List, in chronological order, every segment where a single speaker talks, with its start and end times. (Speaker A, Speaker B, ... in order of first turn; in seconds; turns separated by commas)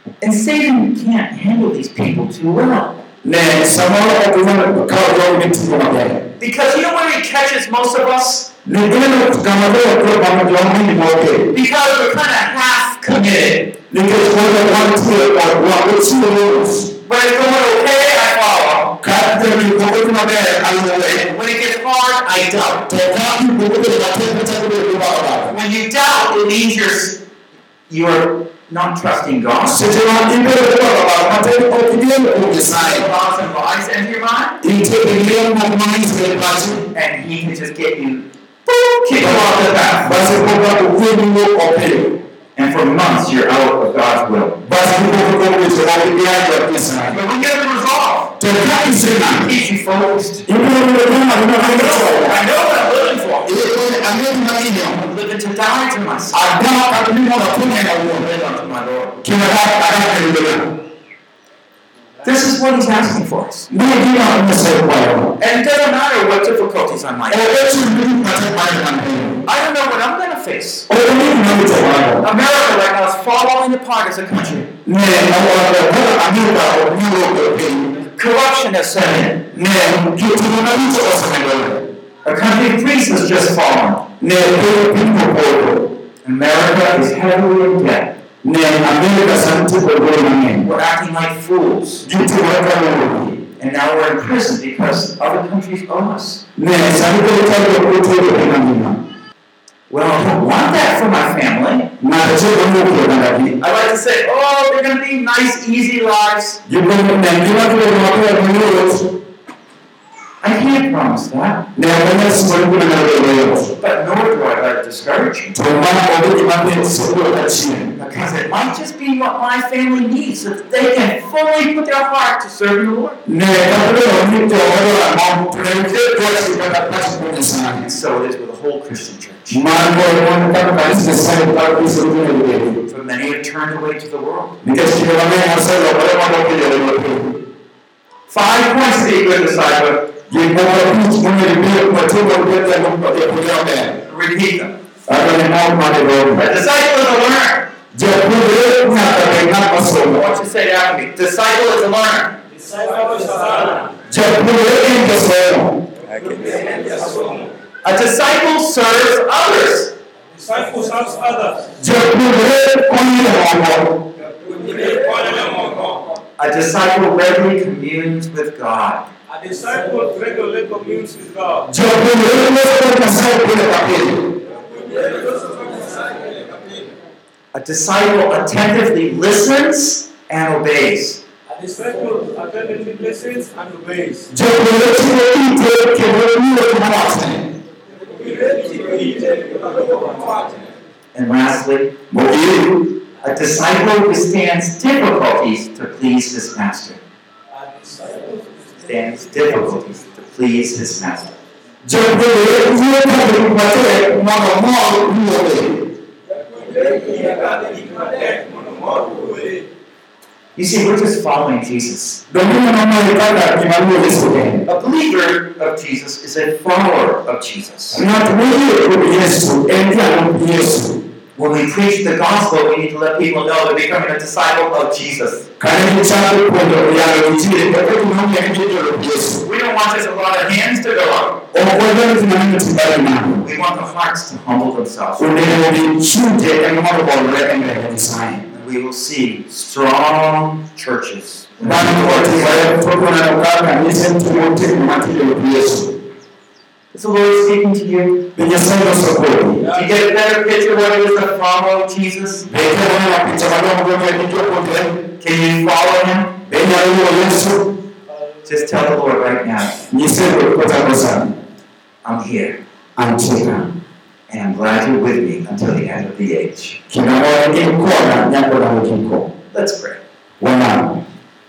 Speaker A: 0.2-3.0, Speaker B: 3.2-6.2, Speaker A: 6.4-8.5, Speaker B: 8.6-11.5, Speaker A: 11.5-13.7, Speaker B: 13.9-16.9, Speaker A: 17.0-19.0, Speaker B: 19.0-21.2, Speaker A: 21.0-22.9, Speaker B: 22.7-25.5, Speaker A: 25.5-27.2, Speaker A: 27.9-29.9, Speaker B: 29.6-33.0, Speaker A: 32.7-34.6, Speaker B: 34.6-36.8, Speaker A: 36.9-40.1, Speaker B: 39.2-42.2, Speaker A: 42.5-44.6, Speaker B: 44.6-47.1, Speaker A: 47.1-48.3, Speaker B: 48.4-49.5, Speaker A: 49.2-50.5, Speaker B: 50.5-52.4, Speaker A: 51.5-53.6, Speaker B: 53.5-55.0, Speaker A: 55.0-56.5, Speaker B: 56.3-58.3, Speaker A: 58.1-59.2, Speaker B: 59.2-60.8, Speaker A: 62.2-63.7, Speaker B: 63.7-65.3, Speaker A: 65.4-67.5, Speaker B: 67.3-69.4, Speaker A: 69.5-70.9, Speaker B: 70.9-72.2, Speaker A: 72.2-74.7, Speaker B: 74.8-77.9, Speaker A: 78.1-79.4, Speaker B: 79.5-81.8, Speaker A: 82.2-84.1, Speaker B: 84.2-85.9, Speaker A: 86.2-88.2, Speaker B: 88.4-90.7, Speaker A: 90.6-92.0, Speaker B: 92.0-93.4, Speaker A: 93.6-96.4, Speaker B: 96.5-99.0, Speaker A: 99.9-101.9, Speaker B: 102.0-103.5, Speaker A: 103.6-106.6, Speaker B: 106.7-109.1, Speaker A: 110.4-111.7, Speaker B: 111.8-113.7, Speaker A: 113.7-115.5, Speaker B: 115.5-117.9, Speaker A: 117.9-123.2, Speaker B: 123.2-127.8, Speaker A: 127.8-129.6, Speaker B: 129.5-132.8, Speaker A: 132.9-134.6, Speaker B: 134.6-137.4, Speaker A: 138.3-140.1, Speaker B: 140.3-144.0, Speaker A: 144.0-144.8, Speaker B: 145.1-146.5, Speaker A: 146.3-147.7, Speaker B: 147.9-150.3, Speaker A: 150.1-152.3, Speaker C: 152.5-153.9, Speaker B: 154.1-155.8, Speaker A: 156.0-156.8, Speaker C: 156.4-157.4, Speaker A: 157.8-159.9, Speaker C: 160.3-161.8, Speaker B: 161.8-164.0, Speaker C: 164.4-166.1, Speaker A: 166.4-169.1, Speaker C: 169.3-171.7, Speaker B: 171.7-174.3, Speaker C: 174.8-176.2, Speaker A: 177.5-181.2, Speaker C: 181.5-184.3, Speaker B: 184.3-187.5, Speaker C: 188.2-190.5, Speaker A: 191.1-192.0, Speaker B: 192.1-192.9, Speaker A: 193.2-197.0, Speaker C: 197.5-198.4, Speaker A: 198.8-201.3, Speaker B: 201.8-205.8, Speaker C: 206.5-209.6, Speaker A: 210.6-212.2, Speaker B: 212.3-214.6, Speaker A: 214.7-218.0, Speaker B: 217.9-221.0, Speaker A: 221.4-225.5, Speaker B: 225.6-229.4, Speaker A: 229.4-231.4, Speaker B: 231.5-233.4, Speaker A: 233.4-235.6, Speaker B: 235.2-238.4, Speaker A: 238.5-242.7, Speaker B: 241.6-246.0, Speaker A: 246.9-248.3, Speaker B: 248.4-249.6, Speaker A: 249.6-252.5, Speaker B: 252.5-255.0, Speaker A: 255.2-256.4, Speaker B: 256.4-257.7, Speaker A: 258.4-259.9, Speaker B: 259.9-261.3, Speaker A: 262.0-262.6, Speaker B: 263.0-263.7, Speaker A: 264.3-266.8, Speaker B: 266.9-269.3, Speaker A: 269.5-270.0, Speaker B: 270.4-271.0